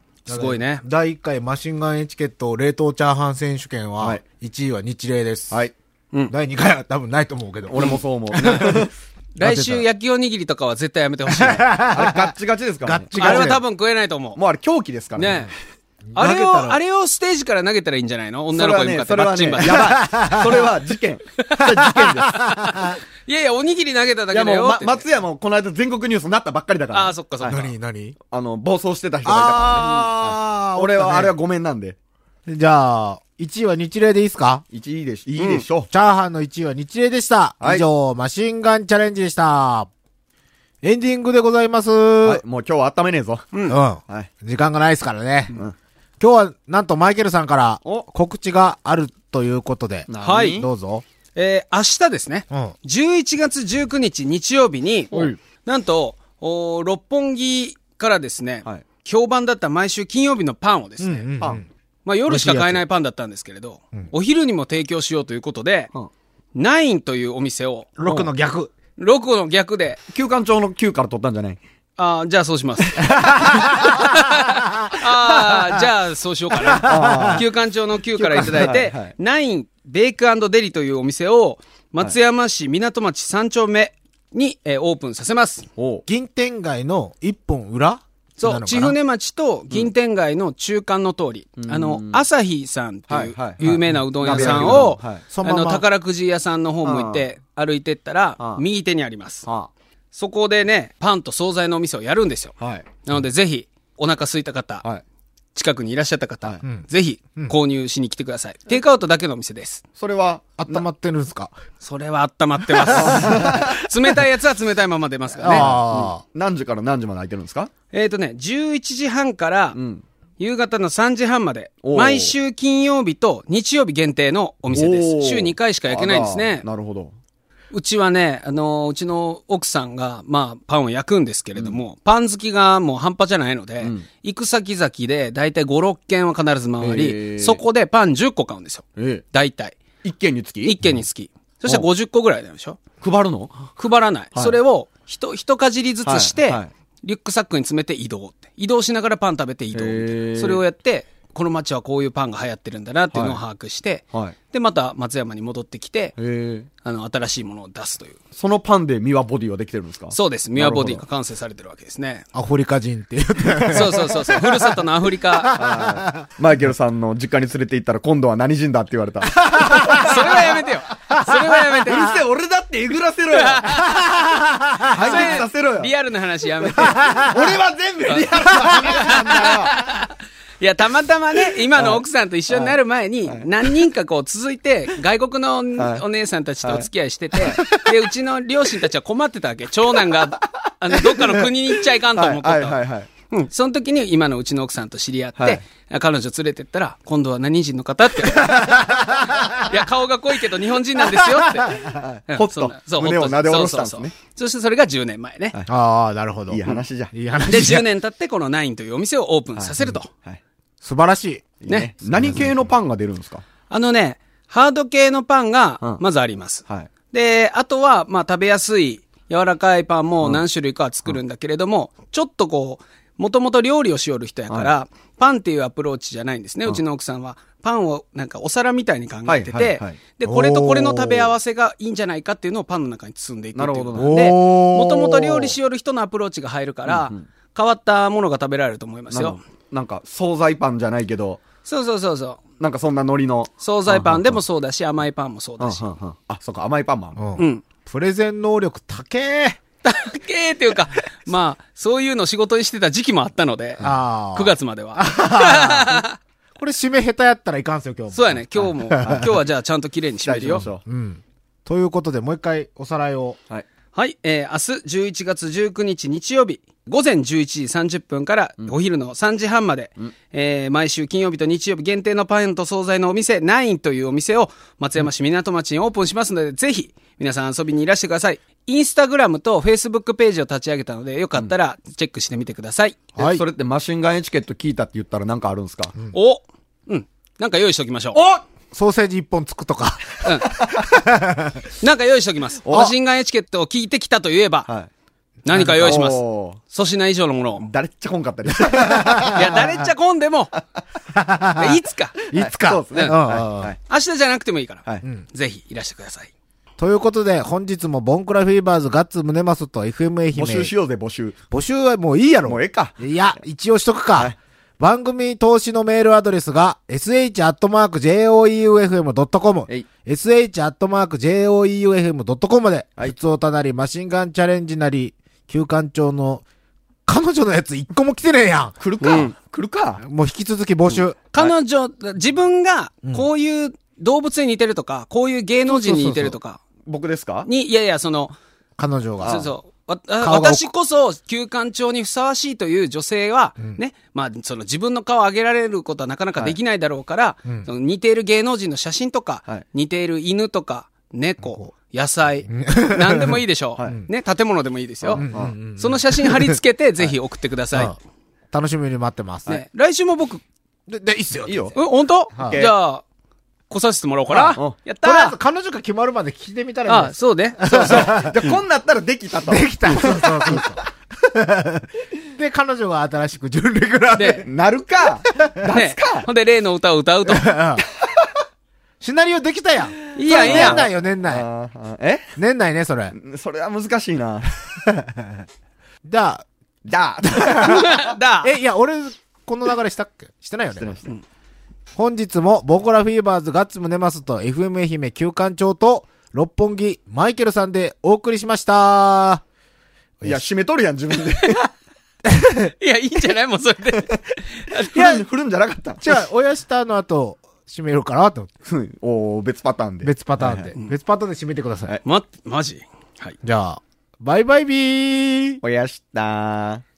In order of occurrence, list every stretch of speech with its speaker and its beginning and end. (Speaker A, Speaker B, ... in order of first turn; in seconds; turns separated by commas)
Speaker A: 0.3-0.8, Speaker B: 0.3-5.6, Speaker B: 6.3-8.9, Speaker C: 7.7-8.9, Speaker A: 9.3-11.8, Speaker B: 9.4-9.8, Speaker B: 11.3-13.6, Speaker C: 11.9-13.6, Speaker A: 13.2-14.4, Speaker C: 14.4-15.5, Speaker A: 15.2-15.5, Speaker B: 16.1-16.8, Speaker A: 16.1-20.0, Speaker C: 18.5-22.7, Speaker B: 19.6-20.7, Speaker A: 21.4-21.9, Speaker B: 21.6-23.0, Speaker A: 22.5-25.1, Speaker C: 24.3-27.6, Speaker A: 26.9-27.7, Speaker B: 27.5-28.2, Speaker C: 28.3-32.0, Speaker B: 29.2-31.3, Speaker B: 32.5-34.6, Speaker C: 34.7-35.9, Speaker A: 35.4-35.6, Speaker B: 35.9-39.9, Speaker C: 37.6-37.9, Speaker B: 40.8-42.4, Speaker C: 42.2-43.5, Speaker A: 43.5-43.8, Speaker B: 43.7-45.5, Speaker B: 46.2-51.0, Speaker C: 50.1-50.7, Speaker A: 50.2-50.6, Speaker A: 51.4-55.1, Speaker B: 52.5-52.8, Speaker A: 55.6-61.3, Speaker B: 61.0-61.7, Speaker A: 62.0-65.9, Speaker B: 62.3-62.8, Speaker A: 66.5-68.0, Speaker B: 68.0-68.7, Speaker A: 69.0-70.0, Speaker C: 70.1-71.6, Speaker A: 72.0-85.7, Speaker B: 73.0-75.9, Speaker B: 76.6-77.4, Speaker C: 76.9-77.5, Speaker B: 78.2-78.7, Speaker C: 78.5-79.2, Speaker C: 85.8-86.1, Speaker B: 86.1-89.0, Speaker A: 88.4-99.5, Speaker C: 91.6-92.2, Speaker C: 93.1-95.2, Speaker B: 93.6-95.8, Speaker C: 96.8-97.2, Speaker C: 99.5-99.7, Speaker A: 100.1-104.8, Speaker C: 102.6-103.0, Speaker A: 105.5-109.8, Speaker B: 106.6-107.6, Speaker C: 110.0-110.8, Speaker B: 110.6-111.5, Speaker A: 111.8-115.7, Speaker B: 112.9-113.6, Speaker C: 112.9-113.8, Speaker B: 115.4-116.2, Speaker C: 115.4-117.7, Speaker A: 117.9-119.8, Speaker C: 119.7-120.0, Speaker A: 120.4-126.7, Speaker C: 121.8-122.4, Speaker C: 124.7-127.2, Speaker A: 127.7-139.8, Speaker C: 133.8-134.1, Speaker C: 136.8-137.6, Speaker C: 139.0-139.2, Speaker C: 140.0-140.9, Speaker A: 140.6-142.8, Speaker C: 143.0-143.6, Speaker A: 143.7-156.1, Speaker C: 146.1-146.7, Speaker C: 149.7-150.6, Speaker C: 153.1-153.4, Speaker C: 156.2-156.7, Speaker A: 156.8-158.2, Speaker C: 158.3-161.0, Speaker A: 160.1-162.3, Speaker B: 162.3-164.8, Speaker A: 163.7-165.6, Speaker B: 165.3-166.3, Speaker C: 165.5-170.7, Speaker B: 169.4-170.2, Speaker A: 169.7-172.2, Speaker B: 171.1-172.0, Speaker C: 171.8-173.9, Speaker A: 173.3-173.9, Speaker B: 173.8-175.4, Speaker C: 174.8-175.9, Speaker A: 174.9-177.3, Speaker B: 176.8-177.5, Speaker C: 177.2-179.8, Speaker A: 178.1-192.8, Speaker B: 178.5-179.5, Speaker C: 181.7-183.7, Speaker C: 185.8-186.0, Speaker C: 186.6-186.9, Speaker C: 187.4-187.8, Speaker C: 190.3-193.1, Speaker A: 193.3-201.8, Speaker C: 195.4-195.6, Speaker B: 198.4-199.7, Speaker B: 201.0-202.0, Speaker C: 201.8-204.1, Speaker A: 202.3-205.6, Speaker B: 205.7-207.9, Speaker C: 206.5-207.1, Speaker A: 207.4-210.1, Speaker C: 209.6-210.4, Speaker B: 210.8-211.5, Speaker C: 211.6-213.4, Speaker B: 212.1-212.7, Speaker A: 213.7-239.4, Speaker C: 229.3-230.0, Speaker B: 230.2-231.3, Speaker C: 233.6-234.1, Speaker B: 233.9-235.6, Speaker C: 236.9-237.3, Speaker C: 239.1-241.4, Speaker A: 241.7-242.4, Speaker C: 242.6-244.4, Speaker A: 243.6-245.9, Speaker C: 245.6-247.2, Speaker B: 247.2-249.6, Speaker A: 247.4-247.6, Speaker A: 249.8-256.2, Speaker B: 253.8-256.1, Speaker B: 256.6-259.3, Speaker A: 258.1-260.7, Speaker C: 259.0-259.4, Speaker C: 260.2-260.8, Speaker B: 260.7-263.4, Speaker A: 263.9-283.0, Speaker B: 283.2-283.4, Speaker C: 283.2-285.9, Speaker A: 286.1-288.2, Speaker B: 288.7-291.7, Speaker A: 290.2-290.5, Speaker A: 291.8-294.7, Speaker C: 292.6-292.9, Speaker A: 295.4-297.7, Speaker B: 295.5-296.1, Speaker C: 295.8-296.6, Speaker C: 297.6-299.6, Speaker B: 298.5-299.8, Speaker A: 299.3-300.5, Speaker B: 301.1-301.8, Speaker A: 301.6-302.2, Speaker C: 302.2-303.8, Speaker B: 302.3-303.7, Speaker A: 303.9-306.3, Speaker B: 306.8-310.7, Speaker C: 310.3-311.4, Speaker B: 311.5-326.4, Speaker C: 312.5-313.0, Speaker B: 327.1-328.8, Speaker C: 328.8-330.0, Speaker A: 329.0-329.3, Speaker B: 330.0-331.2, Speaker C: 330.9-331.5, Speaker A: 331.3-336.6, Speaker B: 335.7-336.4, Speaker C: 336.9-337.5, Speaker A: 337.4-338.4, Speaker B: 338.8-339.4, Speaker A: 339.2-357.9, Speaker C: 339.2-339.5, Speaker B: 340.2-340.7, Speaker B: 351.4-351.7, Speaker B: 352.5-354.1, Speaker C: 355.0-355.6, Speaker B: 355.1-356.6, Speaker B: 358.5-359.5, Speaker A: 359.5-360.4, Speaker B: 360.9-361.8, Speaker C: 361.5-361.8, Speaker A: 361.8-363.0, Speaker B: 362.4-362.6, Speaker C: 362.4-362.8, Speaker A: 363.7-365.4, Speaker B: 364.3-368.4, Speaker A: 366.9-368.6, Speaker C: 367.7-370.8, Speaker B: 369.4-374.5, Speaker A: 374.1-374.5, Speaker C: 374.5-376.3, Speaker A: 375.7-377.6, Speaker B: 377.3-377.9, Speaker B: 379.0-381.5, Speaker A: 380.1-380.9, Speaker C: 380.3-382.3, Speaker B: 382.4-383.1, Speaker C: 383.1-384.7, Speaker B: 384.9-385.4, Speaker B: 386.0-386.4, Speaker C: 386.9-388.2, Speaker B: 387.2-391.1, Speaker A: 387.6-388.5, Speaker C: 390.8-391.1, Speaker B: 391.9-399.4, Speaker C: 400.2-401.6, Speaker B: 402.3-402.7, Speaker A: 402.7-405.2, Speaker C: 404.8-406.1, Speaker B: 404.9-405.2, Speaker B: 406.0-408.5, Speaker C: 408.7-410.7, Speaker B: 410.0-412.0, Speaker A: 412.0-413.4, Speaker B: 413.4-415.6, Speaker C: 415.6-416.8